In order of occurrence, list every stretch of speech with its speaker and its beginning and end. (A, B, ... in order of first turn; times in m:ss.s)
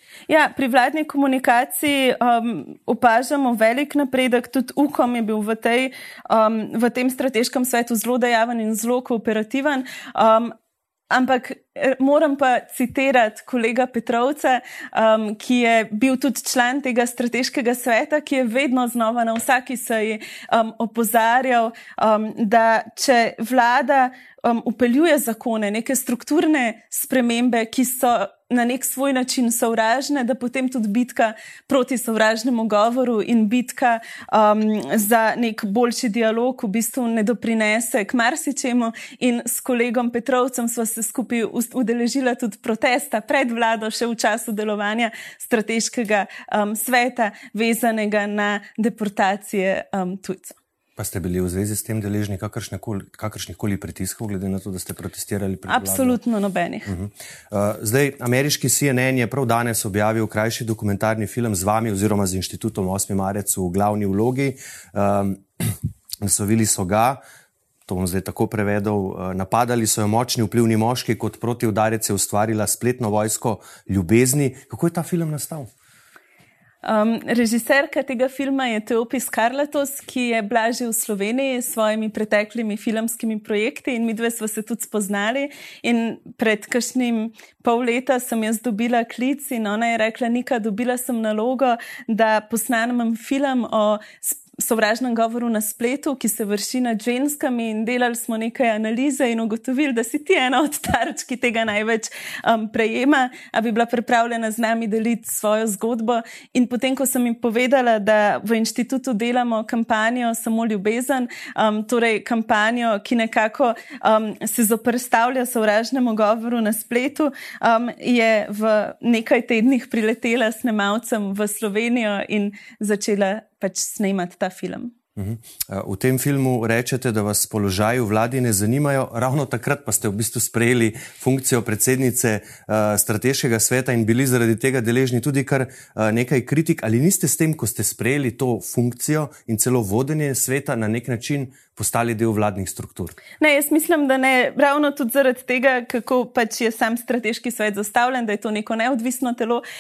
0:00.3-0:10.5 A
0:11.1-0:50.6 A
0:51.0-0:56.2 B
0:55.7-0:56.9 A
0:56.9-1:07.2 B
1:07.9-1:15.7 B
1:16.8-2:04.9 A
2:05.2-2:23.2 B
2:23.4-2:29.6 A